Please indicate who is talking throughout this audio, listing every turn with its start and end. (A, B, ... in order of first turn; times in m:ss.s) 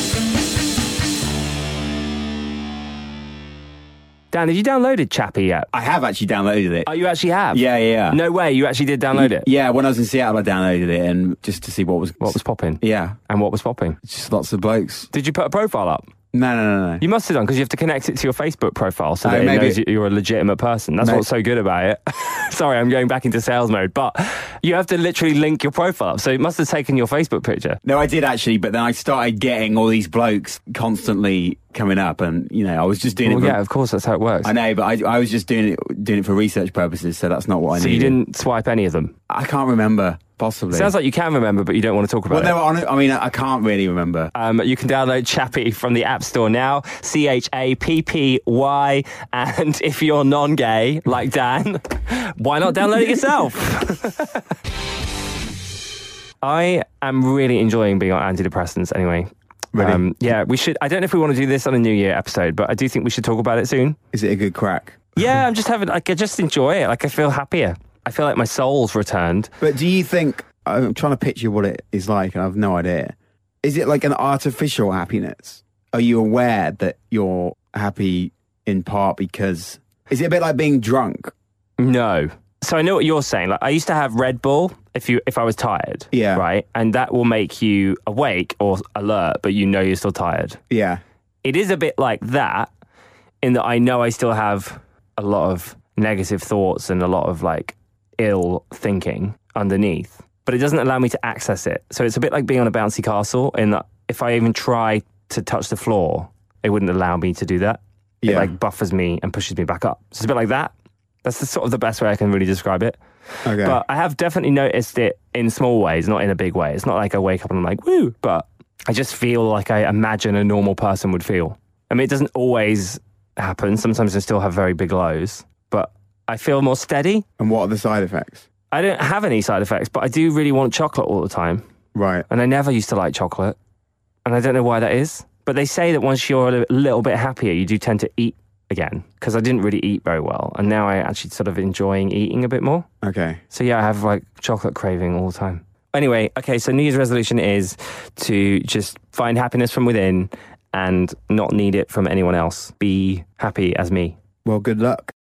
0:04.3-0:05.7 A
0:05.7-0:06.9 B
0:06.9-0:09.5 A
0:07.5-0:08.2 B
0:09.1-0:13.2 B
0:12.2-0:14.0 A
0:14.0-0:15.1 B
0:15.1-0:16.1 A
0:16.3-0:17.0 B
0:17.0-0:27.8 A
0:19.2-0:19.8 B
0:21.0-0:21.2 B
0:27.8-0:33.6 B
0:33.2-0:34.6 A
0:34.4-0:38.2 B
0:37.7-0:39.1 A
0:39.3-0:40.9 B
0:40.7-0:42.6 A
0:42.3-0:44.3 B
0:44.4-0:54.4 A
0:56.4-1:04.0 A
0:59.7-1:00.0 B
1:04.1-1:05.0 B
1:05.2-1:09.5 A
1:09.6-1:21.3 B
1:21.8-1:30.6 A
1:26.1-1:26.4 B
1:30.7-1:31.0 B
1:31.4-1:32.7 A
1:33.4-1:50.7 A
1:48.2-1:48.5 B
1:51.2-2:07.2 A
1:53.4-1:53.8 B
2:07.4-2:08.4 B
2:08.7-2:11.6 A
2:12.0-2:12.3 B
2:12.3-2:13.6 A
2:14.2-2:22.9 A
2:23.0-2:23.4 B
2:23.5-2:34.2 A
2:34.4-2:35.1 B